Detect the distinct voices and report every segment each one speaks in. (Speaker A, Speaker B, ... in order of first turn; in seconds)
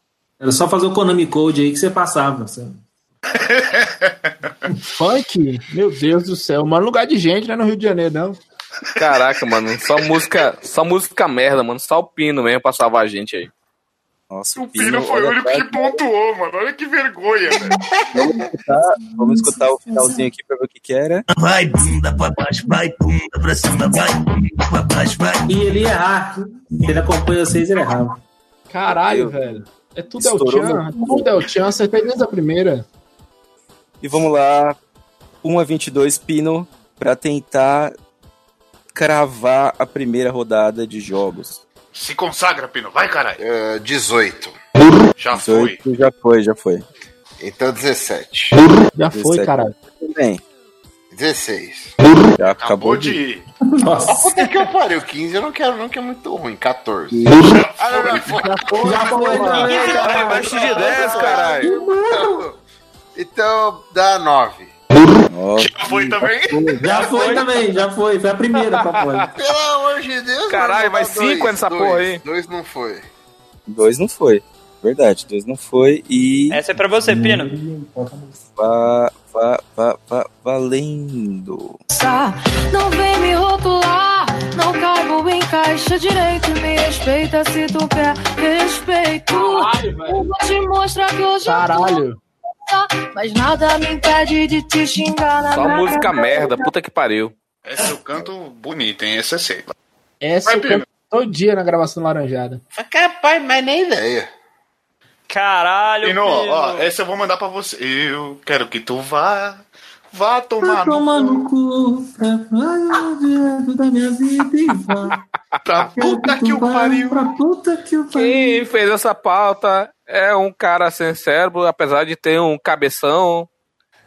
Speaker A: 0.4-2.8, 19.2-20.2, 25.5-28.2, 53.8-54.6, 58.8-62.4, 66.8-69.3, 77.0-78.3, 110.6-115.2, 115.8-118.6
Speaker B: 3.4-4.1, 14.5-17.7, 41.9-43.4, 45.2-45.8, 52.6-53.4, 57.5-58.7, 65.6-66.7, 97.7-99.7, 100.4-100.8, 106.0-111.5, 115.6-117.3
Speaker C: 4.9-8.4, 28.7-32.8, 48.9-49.7, 58.3-60.0, 89.3-90.2, 91.4-92.2, 100.2-102.6
Speaker D: 9.0-13.5, 59.6-61.7, 70.5-72.2, 95.5-97.3, 118.1-123.5
Speaker E: 14.3-16.0, 18.1-21.2, 28.9-29.4, 30.2-31.3, 34.0-34.8, 35.4-37.9, 38.9-41.6, 45.3-46.8, 49.1-50.4, 52.4-53.2, 57.1-57.5, 65.3-66.8, 73.7-76.6, 78.5-81.8
Speaker F: 21.3-25.5
Speaker G: 43.4-44.5, 47.4-48.5, 51.1-51.9, 54.1-62.5, 63.1-64.7, 69.3-73.0, 102.8-104.3
Speaker H: 66.9-67.5, 76.5-77.5, 105.3-106.9
Speaker I: 81.9-92.0, 92.7-96.7